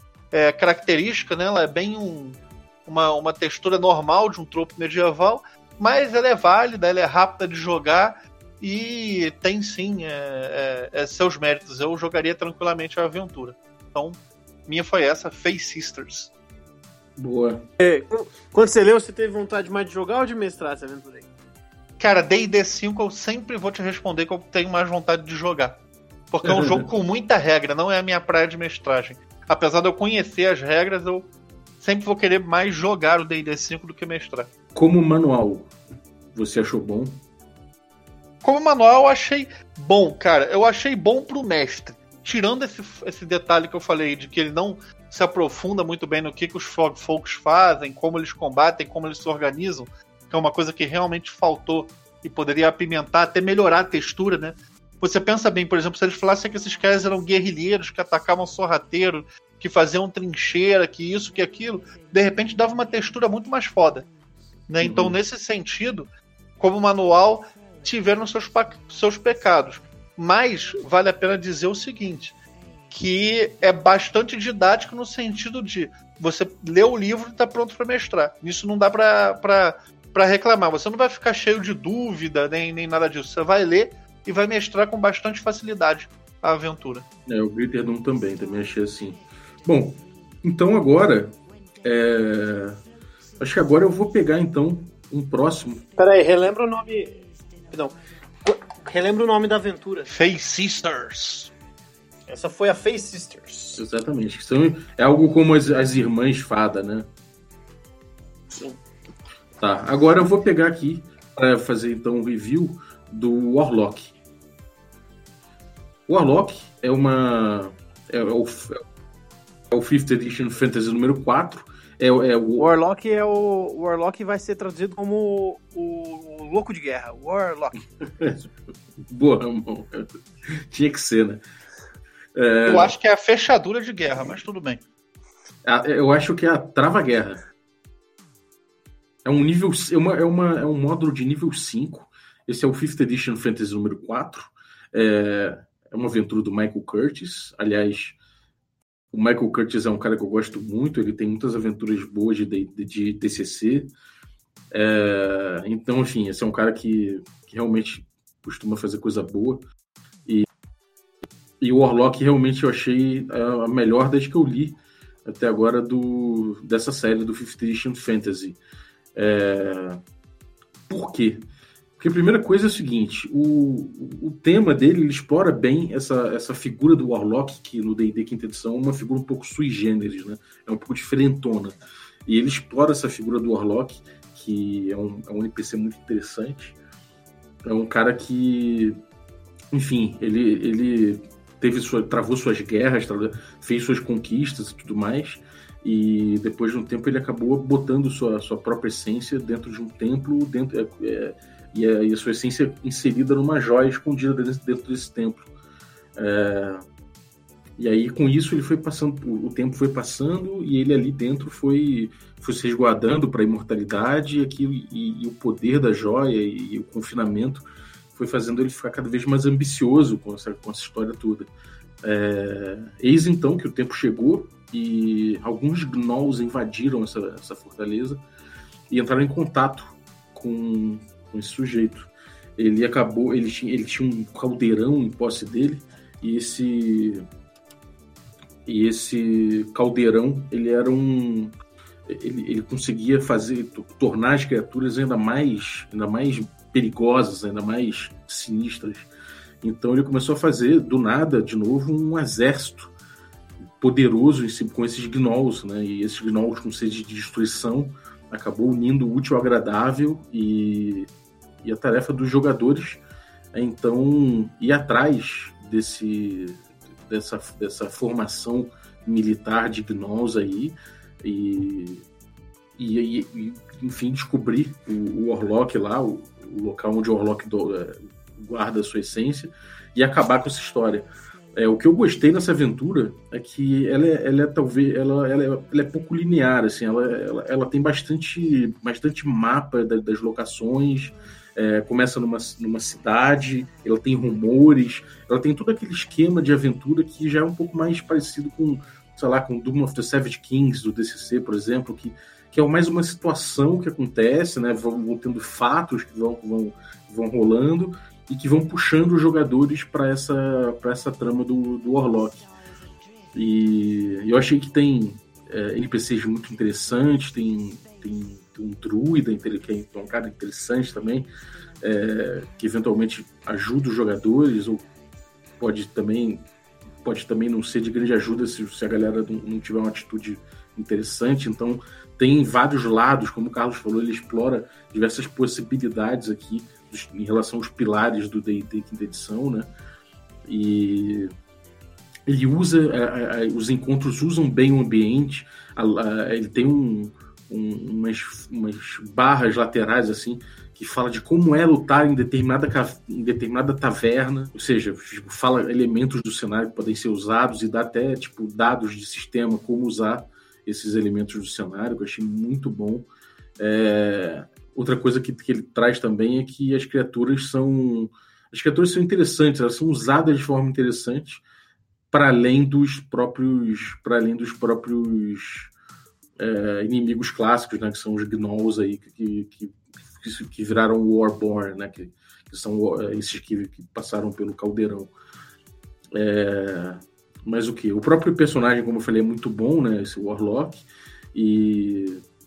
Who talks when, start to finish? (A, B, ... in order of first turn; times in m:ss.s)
0:00.3-0:16.3 A
0:17.2-0:17.6 B
0:17.8-0:21.3 C
0:22.0-0:25.8 A
0:26.3-0:34.5 A
0:26.4-0:26.8 B
0:34.7-0:35.7 B
0:36.3-0:37.2 B
0:38.4-1:04.1 A
1:04.7-1:12.4 A
1:04.8-1:05.2 B
1:12.9-1:27.0 A
1:27.3-1:32.8 B
1:33.4-1:35.8 B
1:36.0-1:40.1 C
1:40.1-1:41.5 A
1:42.3-1:43.8 C
1:43.8-1:47.1 B
1:48.5-1:48.8 C
1:49.6-1:54.1 B
1:56.1-1:58.8 B
1:59.7-2:02.7 B
2:02.6-2:07.8 C
2:08.1-2:08.4 B
2:09.0-2:10.1 B
2:10.7-2:11.4 B
2:12.3-2:13.0 B
2:12.6-2:14.8 A
2:15.6-2:17.4 B
2:19.2-2:28.2 B
2:29.1-2:33.9 B
2:34.7-2:39.6 B
2:41.6-2:48.6 B
2:49.1-2:50.0 B
2:50.9-2:51.4 B
2:52.0-3:06.8 B
3:07.6-3:09.0 B
3:09.7-3:25.5 B
3:26.2-3:26.8 B
3:27.8-3:41.5 B
3:42.0-3:48.2 B
3:48.9-3:57.2 B
3:58.6-4:01.5 B
4:02.0-4:09.1 B
4:09.6-4:12.9 B
4:13.8-4:21.1 B
4:21.6-4:23.0 B
4:23.5-4:32.0 B
4:32.8-5:12.5 B
5:13.3-5:21.3 B
5:21.8-5:24.8 B
5:25.6-5:26.4 B
5:27.0-5:39.7 B
5:40.4-5:41.3 B
5:42.2-6:03.1 B
6:03.6-6:11.4 B
6:12.1-6:15.7 B
6:16.4-6:25.1 B
6:26.1-6:32.2 B